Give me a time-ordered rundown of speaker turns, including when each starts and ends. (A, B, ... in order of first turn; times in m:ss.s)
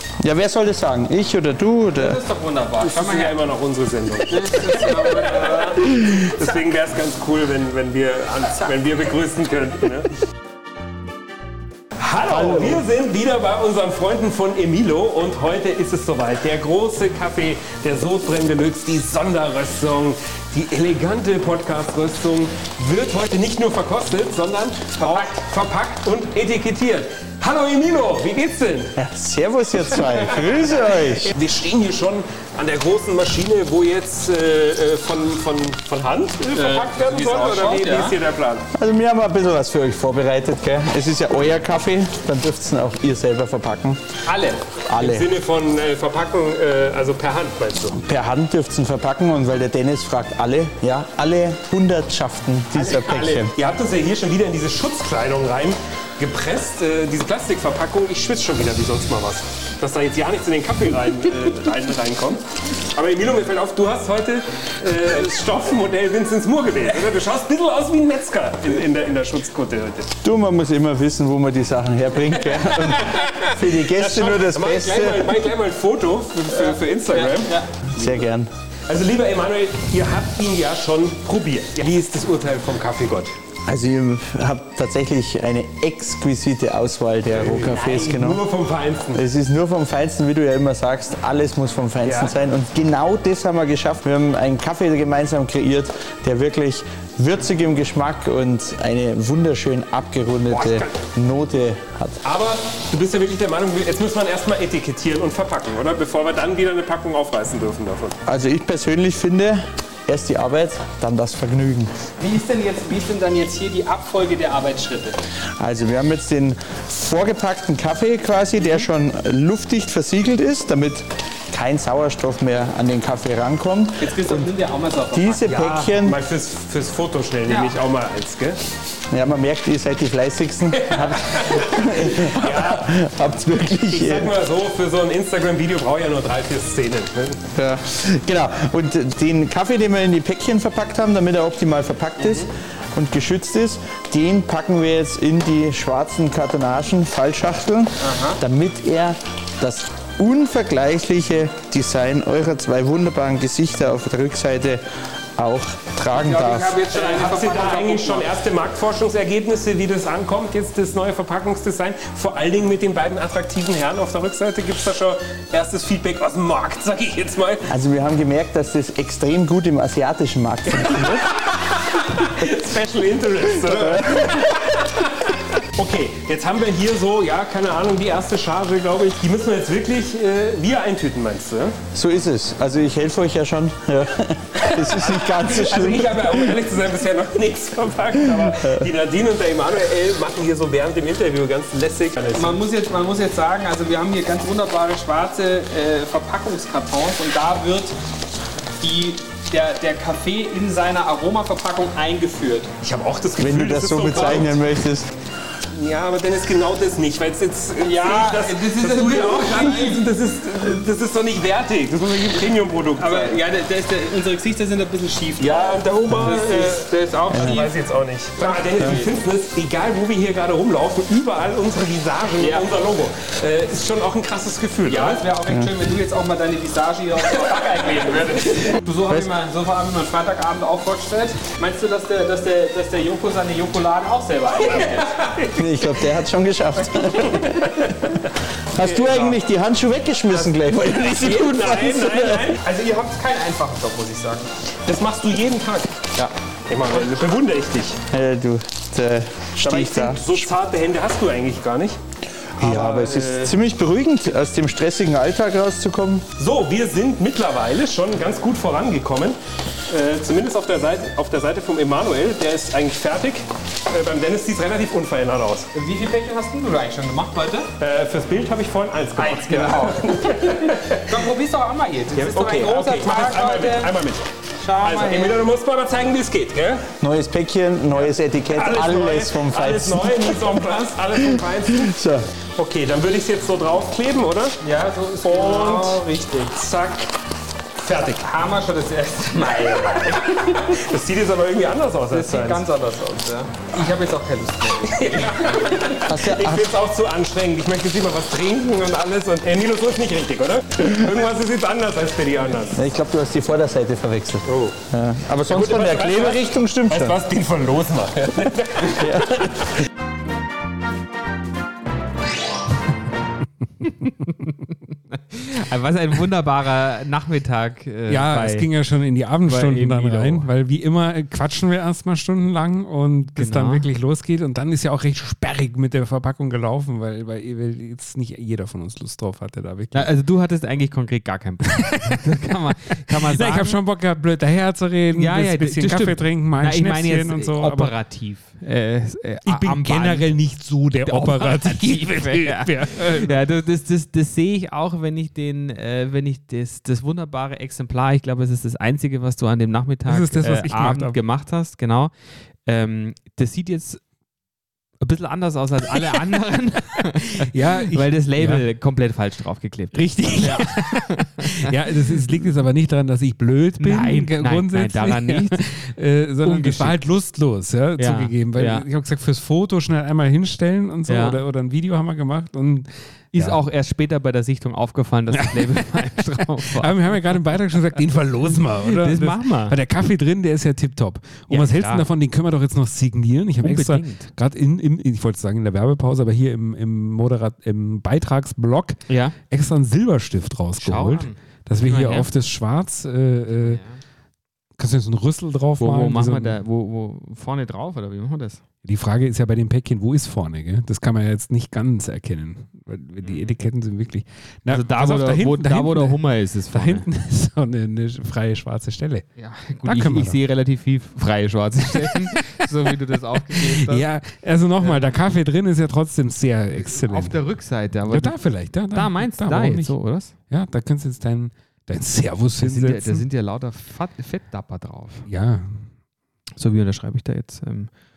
0:00.2-0:02.2 A
0:02.0-0:03.4 B
0:02.8-0:10.1 C
0:04.3-0:06.2 B
0:12.0-0:29.0 C
0:12.3-0:12.8 A
0:25.0-0:25.3 B
0:29.0-0:31.3 A
0:31.2-0:38.6 C
0:36.5-0:38.2 B
0:38.8-0:44.0 A
0:44.2-0:44.7 B
0:44.9-0:45.3 A
0:45.0-0:48.0 C
0:47.9-0:53.5 A
0:52.7-1:10.1 C
1:10.2-1:15.3 A
1:12.8-1:17.6 C
1:16.5-1:17.7 B
1:17.9-1:18.5 A
1:18.9-1:23.3 C
1:23.7-1:28.4 A
1:27.3-1:29.2 C
1:29.1-1:42.2 A
1:32.0-1:32.3 C
1:40.5-1:40.8 C
1:42.2-1:48.2 C
1:48.3-1:52.0 A
1:52.2-1:55.2 B
1:55.6-2:04.5 A
2:04.0-2:05.6 B
2:05.1-2:06.2 A
2:05.5-2:08.6 C
2:07.5-2:07.7 B
2:09.1-2:14.3 A
2:10.8-2:13.1 C
2:13.8-2:17.4 C
2:17.5-2:34.8 A
2:28.0-2:28.4 B
2:35.4-2:36.8 A
2:36.1-2:38.3 B
2:36.9-2:47.7 C
2:47.7-2:51.3 A
2:51.0-3:01.8 C
2:53.9-2:54.4 A
3:01.9-3:06.5 A
3:04.6-3:12.6 C
3:12.3-3:18.0 B
3:18.8-3:22.7 B
3:22.8-3:24.7 C
3:23.4-3:25.1 A
3:25.7-3:33.4 C
3:27.8-3:30.1 B
3:33.0-3:37.7 B
3:35.4-3:45.2 C
3:37.3-3:37.7 A
3:38.4-3:39.0 B
3:42.4-3:42.7 B
3:44.9-3:55.6 B
3:55.6-3:58.0 A
3:58.7-4:02.5 A
3:58.8-3:59.4 B
4:00.3-4:00.7 B
4:01.1-4:02.6 C
4:01.5-4:04.5 B
4:04.9-4:06.1 C
4:06.7-4:08.0 C
4:08.1-4:10.4 A
4:09.6-4:12.0 C
4:12.6-4:16.2 A
4:12.7-4:13.4 C
4:12.7-4:13.5 B
4:16.4-4:25.7 C
4:25.8-4:27.7 B
4:27.8-4:31.2 C
4:29.2-4:33.9 B
4:32.2-4:34.3 C
4:34.6-4:35.4 B
4:34.8-4:36.9 C
4:37.0-4:40.4 A
4:37.9-4:42.0 C
4:41.8-4:42.3 A
4:42.6-4:44.6 C
4:44.6-4:46.9 B
4:45.2-4:46.0 C
4:47.8-4:48.3 C
4:48.2-4:50.8 B
4:50.1-4:52.6 C
4:52.1-4:56.0 B
4:54.9-5:02.9 C
4:56.0-4:56.7 A
5:02.8-5:07.2 A
5:04.5-5:04.8 C
5:05.5-5:09.6 C
5:08.9-5:09.4 A
5:14.0-5:18.7 D
5:18.1-5:30.1 E
5:19.4-5:20.5 D
5:23.4-5:23.9 D
5:29.9-5:33.8 D
5:31.7-5:32.3 E
5:33.1-5:37.9 E
5:35.1-5:40.3 D
5:39.4-5:43.4 E
5:41.0-5:52.1 D
5:50.1-5:51.2 E
5:52.6-5:54.0 D
5:55.0-6:02.2 D
5:57.4-5:58.6 E
5:59.9-6:13.6 E
6:03.8-6:05.8 D
6:06.4-6:07.0 D
6:08.0-6:08.9 D
6:11.1-6:11.4 D
6:13.3-6:17.2 D
6:15.3-6:33.8 E
6:18.7-6:19.8 D
6:21.5-6:22.1 D
6:23.6-6:24.3 D
6:29.1-6:29.4 D
6:30.8-6:32.3 D
6:33.6-6:34.0 D
6:34.8-6:36.6 E
6:35.8-6:38.6 D
6:38.8-6:49.3 E
6:43.2-6:43.5 D
6:44.7-6:47.1 D
6:49.4-6:54.0 D
6:49.8-6:50.4 E
6:51.9-6:52.9 E
6:53.5-6:57.4 E
6:54.8-6:55.1 D
6:56.8-6:58.4 D
6:58.1-7:00.0 E
6:58.9-7:00.3 D
7:00.5-7:03.2 E
7:02.6-7:05.3 D
7:05.3-7:05.9 E
7:06.6-7:07.9 D